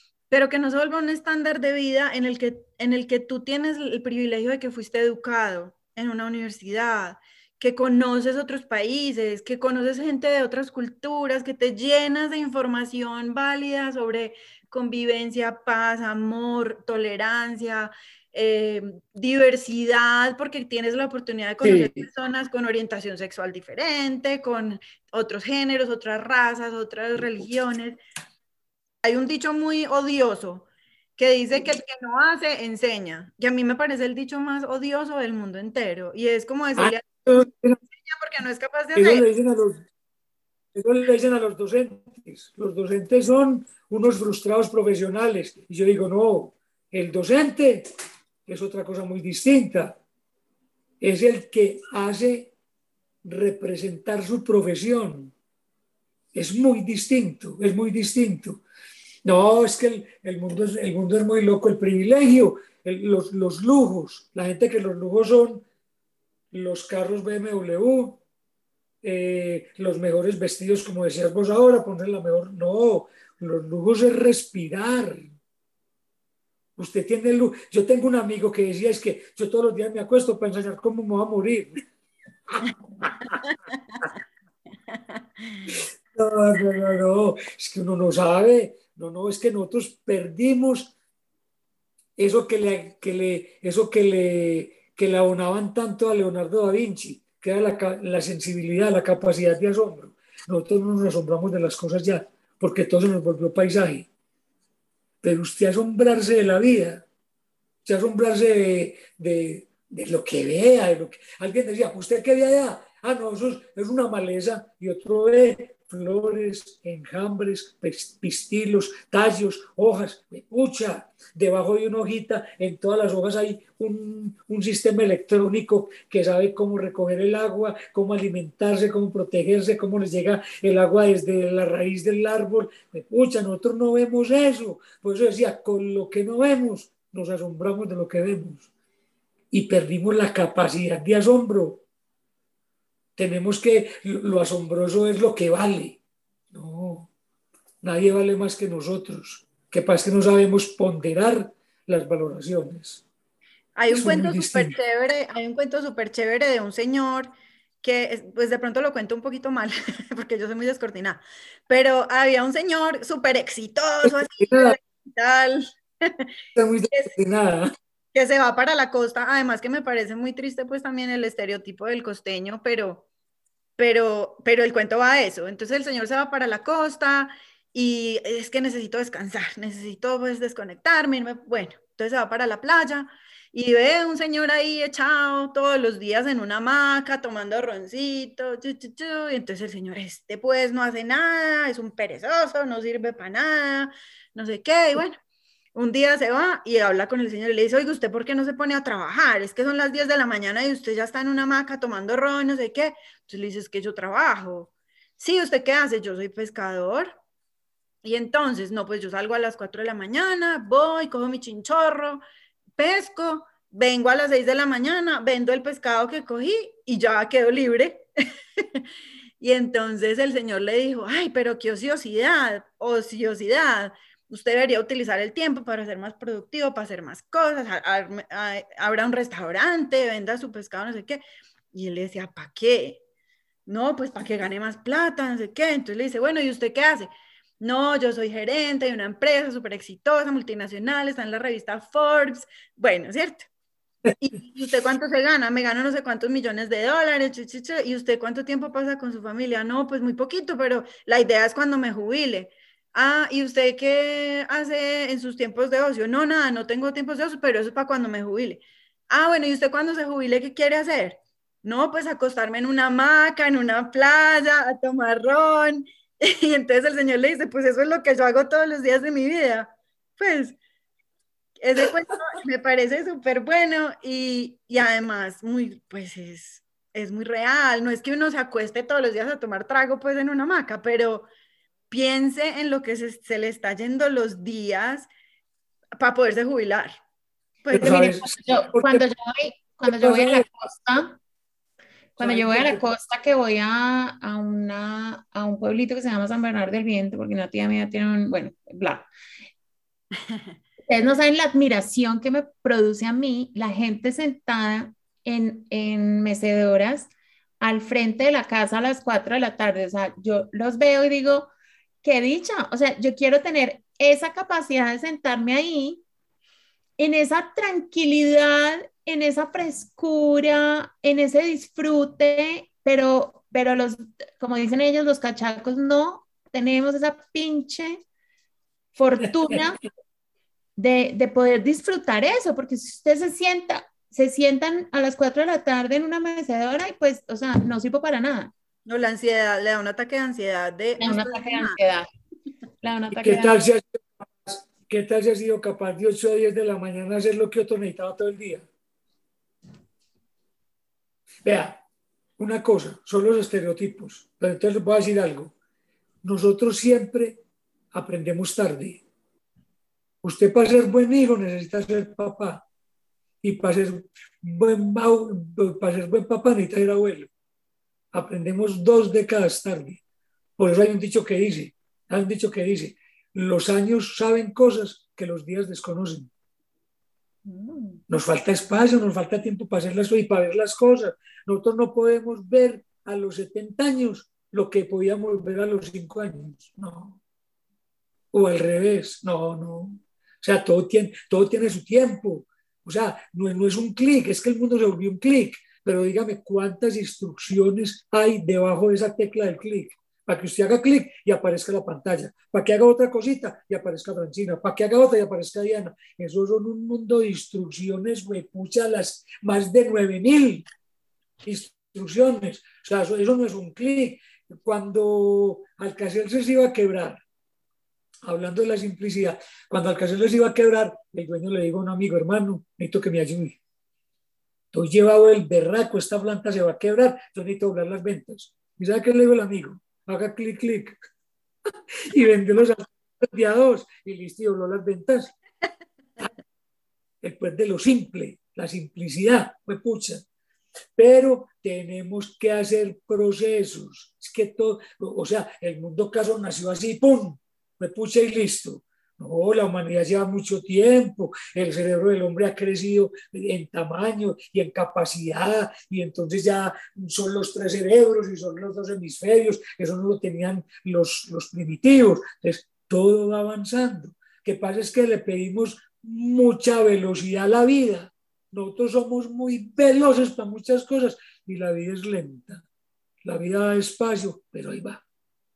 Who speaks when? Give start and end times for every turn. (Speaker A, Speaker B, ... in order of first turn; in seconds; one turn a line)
Speaker A: 0.3-28.0
Speaker B: 21.6-22.1
Speaker A: 29.0-37.3
Speaker B: 36.8-37.8
Speaker A: 38.0-39.3
Speaker B: 39.0-39.8
Speaker B: 40.7-47.9
Speaker B: 48.5-50.0
Speaker B: 51.0-52.5
Speaker B: 53.2-55.3
Speaker B: 56.3-58.6
Speaker B: 59.2-65.7
Speaker B: 66.5-68.2
Speaker B: 69.0-75.3
Speaker B: 76.8-81.8
Speaker B: 82.5-83.4
Speaker A: 84.9-85.6
Speaker B: 86.1-91.0
Speaker B: 92.2-104.1
Speaker B: 105.2-107.0
Speaker B: 107.8-138.7
Speaker B: 139.5-141.8
Speaker B: 143.2-146.0
Speaker B: 146.5-147.1
Speaker B: 147.8-153.0
Speaker A: 153.8-157.3
Speaker B: 153.9-154.8
Speaker A: 157.8-166.3
Speaker B: 164.0-164.8
Speaker B: 166.6-167.7
Speaker A: 168.1-173.1
Speaker A: 173.8-195.2
Speaker A: 195.8-207.2
Speaker A: 208.0-212.2
Speaker A: 212.8-218.1
Speaker A: 218.6-218.8
Speaker A: 219.4-233.0
Speaker A: 233.7-243.5
Speaker A: 244.2-270.6
Speaker A: 271.6-281.3
Speaker A: 281.9-285.1
Speaker A: 286.0-286.9
Speaker B: 287.7-289.0
Speaker C: 287.7-291.2
Speaker B: 289.9-290.5
Speaker B: 292.2-292.8
Speaker C: 292.2-299.1
Speaker C: 300.9-311.5
Speaker C: 312.0-316.0
Speaker C: 317.0-328.0
Speaker C: 328.9-329.8
Speaker C: 330.8-338.5
Speaker A: 338.9-341.8
Speaker C: 341.0-342.1
Speaker C: 342.8-343.6
Speaker B: 343.1-348.7
Speaker B: 351.4-351.8
Speaker B: 352.4-355.5
Speaker B: 356.2-357.4
Speaker B: 357.9-359.0
Speaker B: 360.2-362.6
Speaker B: 363.4-367.3
Speaker B: 368.1-370.0
Speaker B: 370.6-376.3
Speaker C: 377.4-378.0
Speaker B: 378.1-387.2
Speaker B: 388.3-410.7
Speaker B: 411.4-417.2
Speaker B: 418.2-423.6
Speaker B: 424.7-431.0
Speaker B: 432.1-435.3
Speaker B: 437.2-440.2
Speaker B: 441.0-472.6
Speaker B: 473.2-475.0